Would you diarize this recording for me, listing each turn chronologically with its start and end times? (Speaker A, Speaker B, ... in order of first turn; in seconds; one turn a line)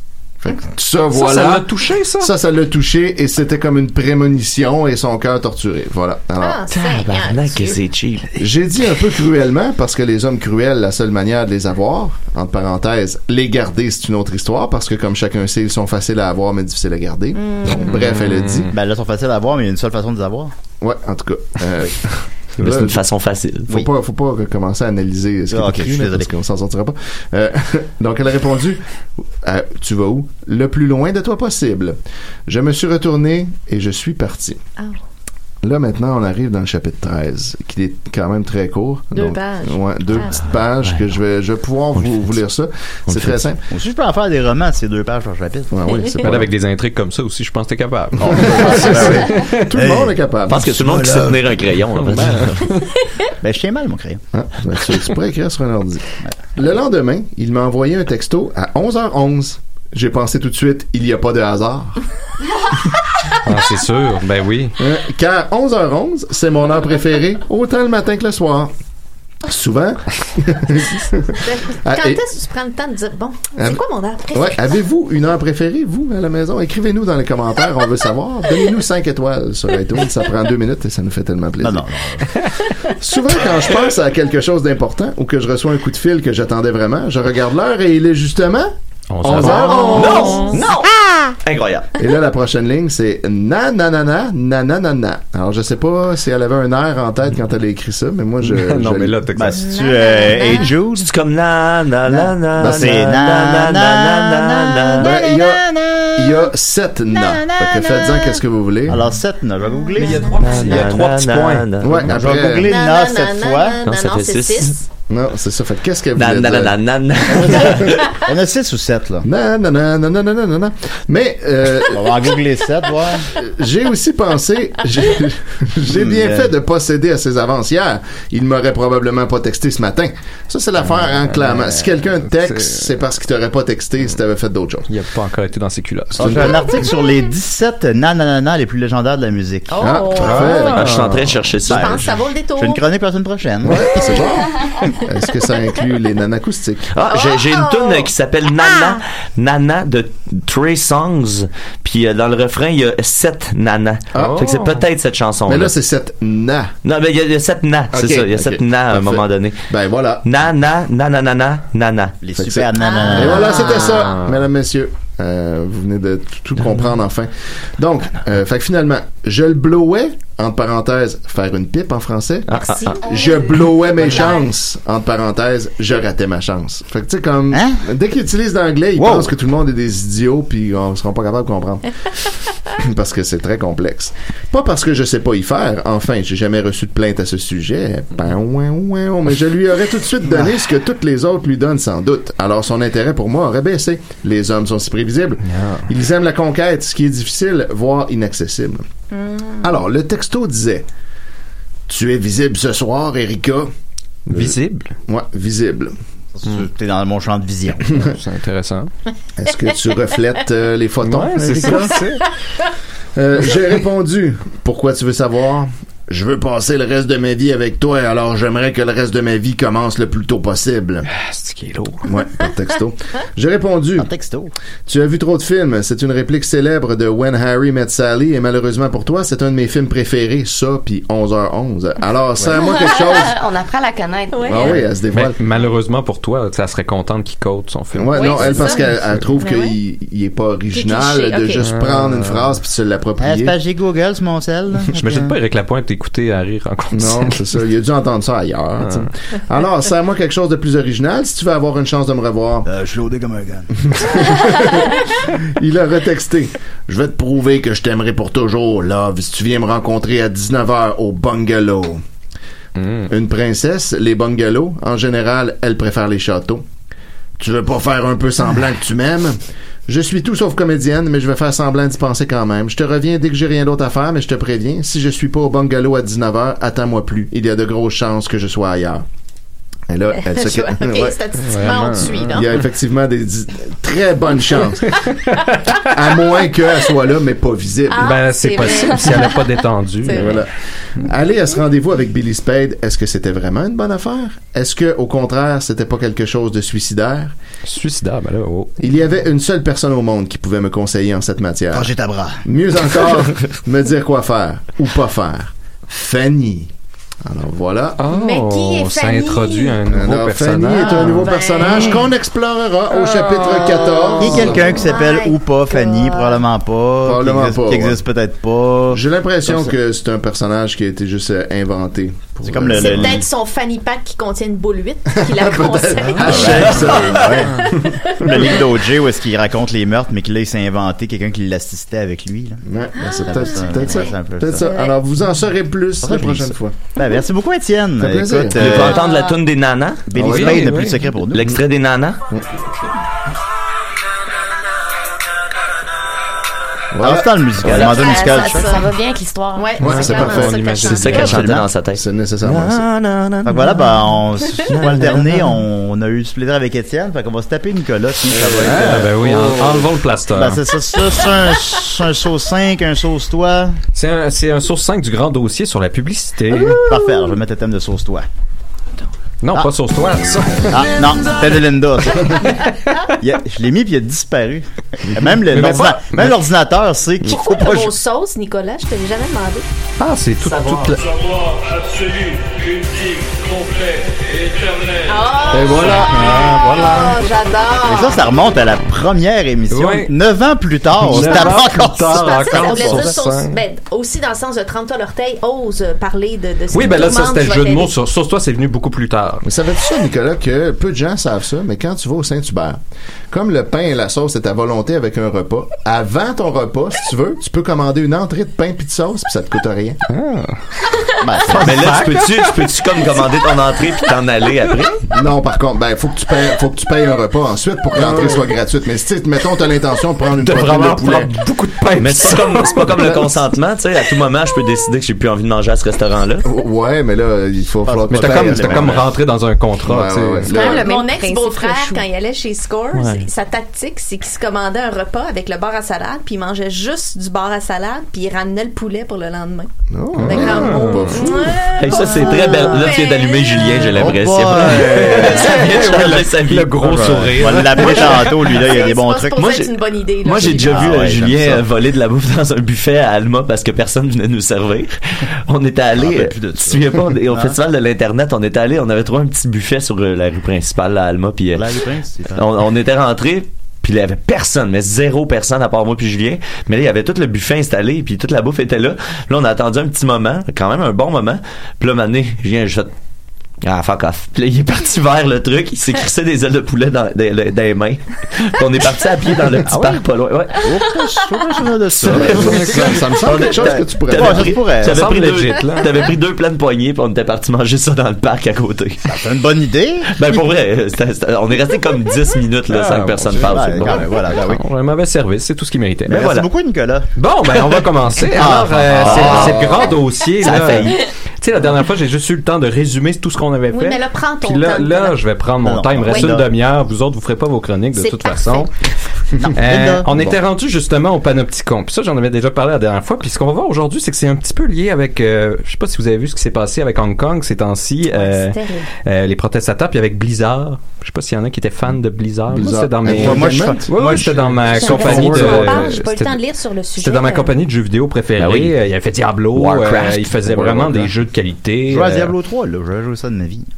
Speaker A: 0.4-1.7
Speaker B: 1.1-2.3
Speaker A: 2.2-6.6
Speaker C: 6.4-7.8
Speaker D: 6.8-8.3
Speaker A: 8.4-18.7
Speaker C: 17.4-17.8
Speaker B: 17.9-18.7
Speaker E: 18.7-20.5
Speaker A: 20.8-23.0
Speaker D: 22.6-23.8
Speaker A: 23.7-28.8
Speaker E: 25.5-26.3
Speaker A: 29.4-34.6
Speaker A: 35.6-43.6
Speaker C: 39.1-40.6
Speaker D: 42.0-42.3
Speaker D: 43.1-43.4
Speaker E: 43.7-45.7
Speaker A: 45.7-46.5
Speaker B: 46.2-49.8
Speaker E: 48.2-50.1
Speaker A: 48.2-50.9
Speaker D: 50.5-52.7
Speaker E: 50.7-51.5
Speaker B: 52.1-52.8
Speaker E: 53.4-54.2
Speaker A: 54.3-62.0
Speaker B: 63.4-64.8
Speaker A: 64.8-68.7
Speaker A: 69.4-72.2
Speaker C: 71.4-74.7
Speaker A: 73.5-81.9
Speaker E: 81.6-82.4
Speaker A: 82.9-90.5
Speaker B: 89.1-90.6
Speaker C: 89.8-90.6
Speaker D: 89.8-90.9
Speaker D: 91.4-91.9
Speaker A: 92.0-99.2
Speaker B: 98.4-99.7
Speaker E: 99.3-101.1
Speaker C: 99.6-100.7
Speaker D: 101.0-105.1
Speaker E: 102.0-106.4
Speaker A: 102.6-103.0
Speaker A: 105.0-109.0
Speaker E: 107.2-110.8
Speaker B: 110.0-111.7
Speaker D: 110.4-112.0
Speaker A: 111.8-112.7
Speaker E: 112.0-113.8
Speaker C: 112.6-114.8
Speaker D: 113.8-114.8
Speaker A: 115.1-116.8
Speaker D: 116.2-118.2
Speaker E: 117.4-119.2
Speaker A: 117.6-117.8
Speaker A: 119.2-122.3
Speaker E: 121.9-123.3
Speaker A: 123.3-134.9
Speaker E: 125.9-126.5
Speaker B: 131.1-131.9
Speaker B: 132.4-132.8
Speaker B: 134.9-136.6
Speaker E: 136.1-139.8
Speaker A: 136.2-136.6
Speaker C: 139.7-140.8
Speaker A: 139.8-141.1
Speaker B: 140.2-141.4
Speaker D: 140.7-142.0
Speaker C: 141.7-142.8
Speaker E: 141.7-142.0
Speaker E: 142.6-143.9
Speaker A: 143.6-146.9
Speaker D: 146.9-155.7
Speaker C: 147.1-149.0
Speaker A: 154.1-154.5
Speaker B: 154.2-154.8
Speaker A: 155.4-156.7
Speaker D: 156.8-159.6
Speaker A: 157.9-160.2
Speaker D: 160.2-162.2
Speaker E: 162.2-163.6
Speaker A: 162.4-181.9
Speaker C: 162.8-164.2
Speaker D: 172.5-172.9
Speaker C: 172.5-174.4
Speaker E: 177.5-177.8
Speaker E: 179.0-179.3
Speaker A: 182.8-198.8
Speaker B: 195.4-195.8
Speaker C: 199.1-199.7
Speaker A: 199.6-200.8
Speaker A: 201.9-203.7
Speaker A: 204.3-205.9
Speaker B: 204.3-204.9
Speaker E: 206.3-207.9
Speaker B: 207.9-208.9
Speaker A: 209.4-212.0
Speaker B: 211.0-212.3
Speaker A: 213.2-221.1
Speaker B: 221.1-222.1
Speaker A: 222.1-224.1
Speaker E: 224.0-224.5
Speaker A: 224.8-233.3
Speaker F: 232.8-234.8
Speaker C: 234.3-234.8
Speaker A: 234.5-235.4
Speaker B: 235.1-238.8
Speaker A: 237.9-243.6
Speaker C: 238.1-239.7
Speaker C: 240.7-241.6
Speaker B: 241.6-242.5
Speaker E: 243.2-245.3
Speaker B: 244.9-247.4
Speaker A: 246.9-252.7
Speaker E: 252.6-253.9
Speaker A: 253.9-262.0
Speaker B: 262.8-263.1
Speaker A: 263.1-266.6
Speaker A: 267.4-279.0
Speaker A: 279.9-281.2
Speaker C: 280.2-282.5
Speaker B: 281.5-282.2
Speaker A: 282.2-285.0
Speaker B: 285.0-285.8
Speaker A: 285.8-288.2
Speaker C: 287.9-290.4
Speaker B: 288.0-290.4
Speaker A: 290.1-297.3
Speaker B: 297.6-298.8
Speaker A: 298.8-301.9
Speaker E: 301.7-302.4
Speaker A: 302.4-306.7
Speaker A: 307.2-308.0
Speaker B: 308.0-311.8
Speaker C: 308.1-309.8
Speaker A: 309.9-314.9
Speaker C: 310.8-312.1
Speaker B: 313.1-313.6
Speaker C: 314.0-316.4
Speaker E: 314.2-319.7
Speaker A: 317.0-318.0
Speaker A: 318.9-323.2
Speaker E: 322.4-323.2
Speaker C: 322.7-327.1
Speaker A: 325.1-328.3
Speaker E: 326.2-334.7
Speaker C: 327.7-328.4
Speaker A: 332.6-336.8
Speaker C: 333.0-335.0
Speaker E: 336.0-339.0
Speaker A: 338.0-338.9
Speaker D: 338.5-340.1
Speaker C: 339.0-339.3
Speaker E: 340.1-341.5
Speaker A: 340.1-340.8
Speaker B: 340.2-341.1
Speaker D: 341.3-342.2
Speaker A: 346.9-347.8
Speaker E: 347.0-348.7
Speaker F: 347.7-350.1
Speaker C: 347.7-348.9
Speaker C: 349.5-351.4
Speaker A: 349.8-351.3
Speaker B: 349.8-351.5
Speaker D: 350.9-353.9
Speaker E: 351.2-351.7
Speaker A: 351.9-352.8
Speaker E: 353.4-363.8
Speaker D: 354.7-355.2
Speaker B: 358.6-360.6
Speaker B: 363.9-366.9
Speaker E: 366.5-368.2
Speaker B: 369.4-371.1
Speaker E: 370.7-372.7
Speaker E: 373.2-377.9
Speaker B: 375.5-376.3
Speaker C: 377.3-379.6
Speaker B: 380.0-381.0
Speaker G: 380.4-386.1
Speaker C: 385.1-388.4
Speaker B: 385.7-387.1
Speaker E: 387.8-393.1
Speaker B: 389.7-390.1
Speaker B: 391.0-393.6
Speaker C: 391.1-397.9
Speaker B: 396.7-399.4
Speaker A: 399.4-402.8
Speaker A: 403.3-410.0
Speaker B: 410.1-410.6
Speaker E: 411.2-411.9
Speaker B: 411.5-412.6
Speaker D: 411.5-415.0
Speaker A: 415.1-421.3
Speaker B: 420.4-423.2
Speaker D: 422.0-426.4
Speaker A: 426.4-429.1
Speaker E: 427.8-429.1
Speaker B: 428.1-430.5
Speaker A: 429.8-430.9
Speaker F: 430.5-432.0
Speaker C: 430.5-439.7
Speaker D: 432.9-433.2
Speaker A: 439.9-441.6
Speaker B: 440.1-441.3
Speaker C: 440.2-443.9
Speaker D: 441.8-448.6
Speaker E: 442.4-442.8
Speaker E: 443.9-445.9
Speaker B: 444.8-448.4
Speaker E: 446.8-449.4
Speaker C: 447.9-451.1
Speaker D: 449.3-472.9
Speaker E: 450.4-451.6
Speaker E: 455.9-457.6
Speaker E: 461.5-462.5
Speaker D: 473.6-480.8
Speaker E: 479.6-480.0
Speaker E: 480.6-485.1
Speaker D: 482.0-489.1
Speaker A: 482.1-484.5
Speaker B: 482.3-483.4
Speaker B: 484.8-485.9
Speaker E: 489.1-490.3
Speaker D: 490.1-494.1
Speaker B: 492.7-496.2
Speaker E: 493.3-494.6
Speaker E: 496.1-497.1
Speaker D: 496.1-496.4
Speaker B: 497.1-508.7
Speaker E: 498.2-501.0
Speaker D: 499.1-499.6
Speaker D: 500.4-500.9
Speaker C: 503.7-505.2
Speaker E: 505.6-506.5
Speaker C: 506.0-506.4
Speaker C: 507.9-508.7
Speaker E: 509.4-510.4
Speaker B: 509.5-526.4
Speaker C: 518.1-518.9
Speaker A: 522.5-524.3
Speaker E: 523.0-525.9
Speaker C: 524.7-527.6
Speaker B: 527.0-532.3
Speaker D: 528.4-528.7
Speaker D: 529.5-530.3
Speaker A: 530.5-531.1
Speaker E: 531.9-533.7